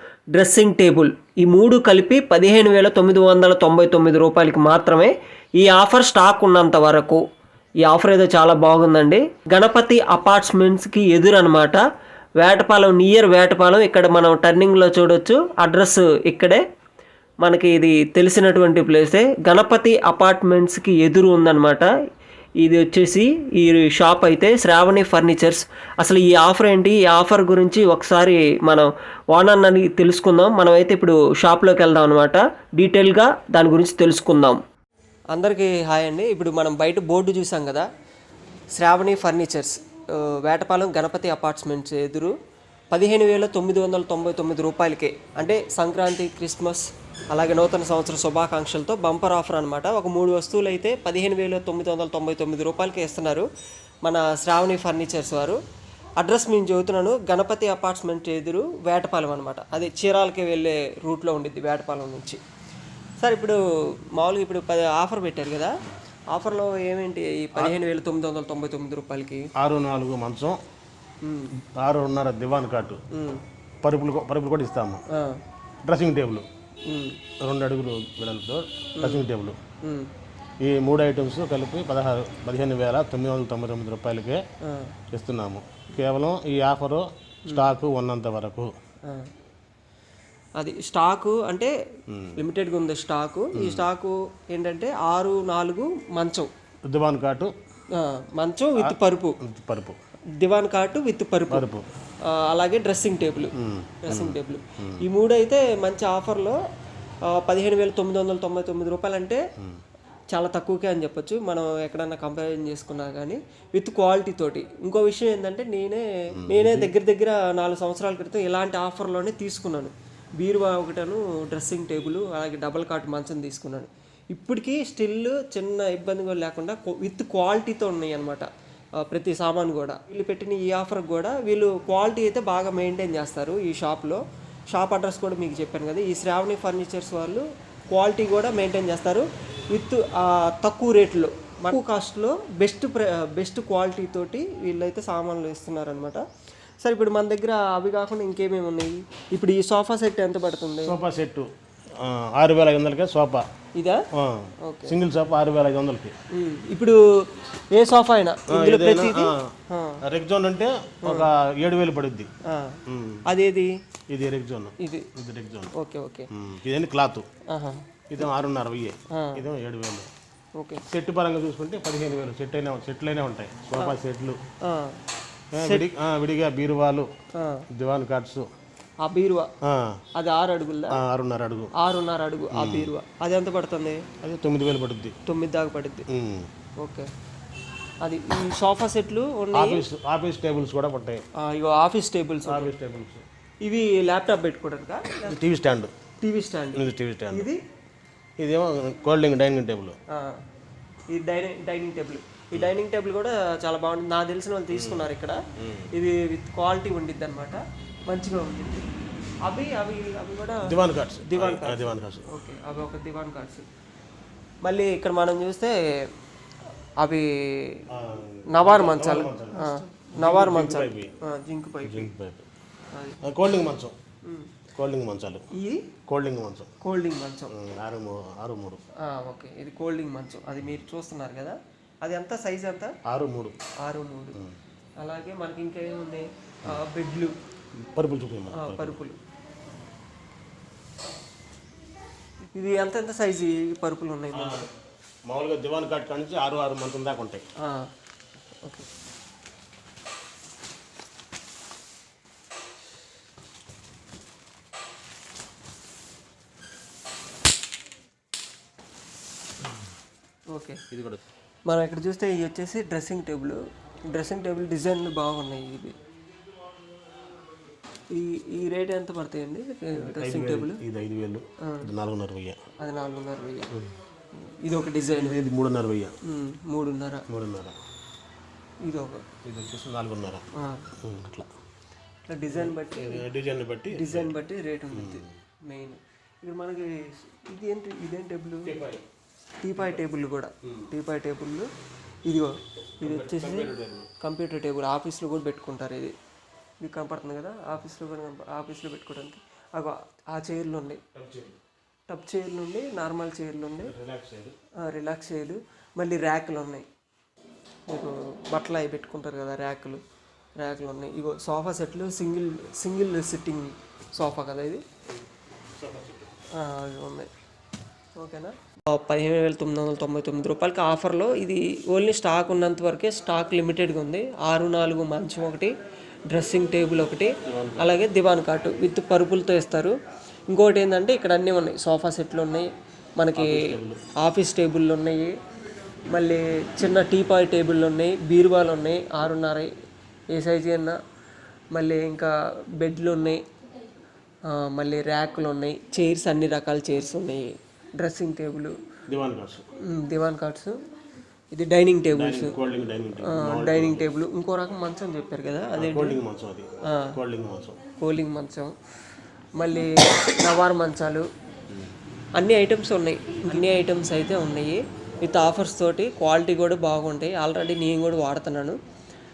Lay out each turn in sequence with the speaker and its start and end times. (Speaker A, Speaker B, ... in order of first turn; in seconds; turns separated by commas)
Speaker A: 0.3-7.2, Speaker A: 7.8-11.8, Speaker A: 12.4-16.6, Speaker A: 17.4-21.9, Speaker A: 22.6-34.6, Speaker A: 35.3-37.9, Speaker A: 38.8-42.3, Speaker A: 42.9-53.5, Speaker A: 54.0-55.6, Speaker A: 56.2-62.4, Speaker A: 63.2-65.8, Speaker A: 66.3-69.5, Speaker B: 69.5-70.6, Speaker A: 71.2-71.5, Speaker B: 71.5-73.0, Speaker A: 73.1-73.4, Speaker B: 73.8-75.0, Speaker A: 75.1-75.4, Speaker B: 75.8-76.5, Speaker A: 76.9-77.2, Speaker B: 77.4-79.6, Speaker A: 79.0-79.2, Speaker A: 79.8-80.1, Speaker B: 80.6-84.4, Speaker A: 84.6-84.9, Speaker B: 85.1-88.7, Speaker A: 87.5-87.7, Speaker A: 89.0-89.3, Speaker A: 90.6-91.7, Speaker B: 92.1-92.4, Speaker A: 92.3-96.5, Speaker B: 93.5-93.9, Speaker B: 96.8-97.5, Speaker A: 97.9-99.4, Speaker B: 98.8-100.0, Speaker A: 100.4-101.7, Speaker B: 101.5-101.8, Speaker A: 102.2-106.6, Speaker B: 103.5-105.0, Speaker A: 107.2-109.4, Speaker A: 110.3-146.2, Speaker B: 116.3-116.9, Speaker A: 146.8-150.9, Speaker B: 150.8-153.4, Speaker A: 153.8-154.0, Speaker B: 154.1-156.1, Speaker A: 154.6-155.0, Speaker A: 156.3-160.0, Speaker B: 158.5-162.3, Speaker A: 161.0-161.3, Speaker A: 162.4-163.7, Speaker B: 162.9-163.2, Speaker B: 164.1-165.7, Speaker A: 164.8-165.1, Speaker A: 165.7-166.3, Speaker B: 166.3-167.3, Speaker A: 167.5-167.9, Speaker B: 168.1-170.1, Speaker A: 169.1-169.4, Speaker A: 170.6-170.8, Speaker B: 170.9-174.4, Speaker A: 174.6-175.0, Speaker B: 175.5-177.1, Speaker A: 175.5-175.9, Speaker A: 177.3-177.7, Speaker B: 177.7-178.5, Speaker A: 179.0-179.5, Speaker B: 179.6-180.0, Speaker A: 180.1-181.0, Speaker B: 180.9-181.7, Speaker A: 181.7-184.0, Speaker B: 182.5-182.9, Speaker B: 184.2-185.2, Speaker A: 185.2-186.1, Speaker B: 186.1-186.5, Speaker A: 186.8-187.1, Speaker A: 188.0-189.8, Speaker B: 189.5-191.2, Speaker A: 191.4-192.7, Speaker B: 192.4-193.2, Speaker A: 193.6-195.3, Speaker B: 195.1-195.9, Speaker A: 196.2-197.6, Speaker B: 196.7-197.5, Speaker B: 198.4-200.0, Speaker A: 200.1-200.4, Speaker A: 201.1-208.9, Speaker B: 204.7-205.9, Speaker A: 209.4-213.7, Speaker B: 210.6-212.3, Speaker A: 214.6-216.1, Speaker A: 217.0-217.8, Speaker B: 217.9-221.1, Speaker A: 218.5-222.1, Speaker B: 221.8-222.5, Speaker A: 222.9-223.2, Speaker B: 223.2-223.9, Speaker A: 224.2-224.6, Speaker B: 224.7-225.5, Speaker A: 225.5-225.9, Speaker B: 226.1-226.7, Speaker A: 226.8-227.5, Speaker B: 227.5-228.8, Speaker A: 229.0-233.0, Speaker B: 233.0-233.6, Speaker A: 233.8-234.4, Speaker A: 235.0-237.3, Speaker B: 237.8-239.0, Speaker A: 238.5-239.2, Speaker A: 242.5-244.7, Speaker B: 244.3-244.7, Speaker B: 245.3-247.5, Speaker A: 247.6-247.9, Speaker A: 248.6-248.9, Speaker A: 260.5-260.8, Speaker B: 260.9-261.2, Speaker A: 261.7-265.9, Speaker A: 268.1-270.8, Speaker B: 269.9-272.6, Speaker A: 271.6-271.9, Speaker A: 272.8-273.7, Speaker A: 274.3-275.4, Speaker B: 275.1-276.1, Speaker A: 276.2-277.2, Speaker B: 277.3-277.8, Speaker A: 278.8-279.2, Speaker B: 279.4-280.4, Speaker A: 280.5-280.9, Speaker B: 281.0-281.5, Speaker A: 282.3-283.2, Speaker B: 282.5-284.3, Speaker A: 283.9-288.8, Speaker B: 284.9-285.3, Speaker B: 288.6-289.0, Speaker A: 289.6-291.7, Speaker B: 290.6-290.9, Speaker A: 292.2-296.1, Speaker B: 293.0-294.1, Speaker A: 296.8-301.0, Speaker B: 301.1-301.6, Speaker A: 302.1-303.9, Speaker B: 303.8-304.5, Speaker A: 304.8-306.9, Speaker A: 307.9-310.0, Speaker A: 310.6-314.8, Speaker B: 315.8-316.3, Speaker A: 316.5-317.3, Speaker A: 318.2-325.7, Speaker A: 326.3-329.9, Speaker B: 327.4-328.0, Speaker A: 330.5-332.7, Speaker A: 333.2-335.3, Speaker B: 333.4-334.0, Speaker A: 336.1-339.7, Speaker A: 340.3-341.0, Speaker A: 341.7-343.4, Speaker A: 344.5-348.8, Speaker B: 349.1-349.6, Speaker A: 349.8-350.8, Speaker A: 351.5-352.6, Speaker B: 352.1-354.1, Speaker A: 353.2-356.2, Speaker B: 355.8-357.8, Speaker A: 356.9-357.1, Speaker A: 358.0-358.7, Speaker A: 359.6-361.3, Speaker A: 362.4-368.8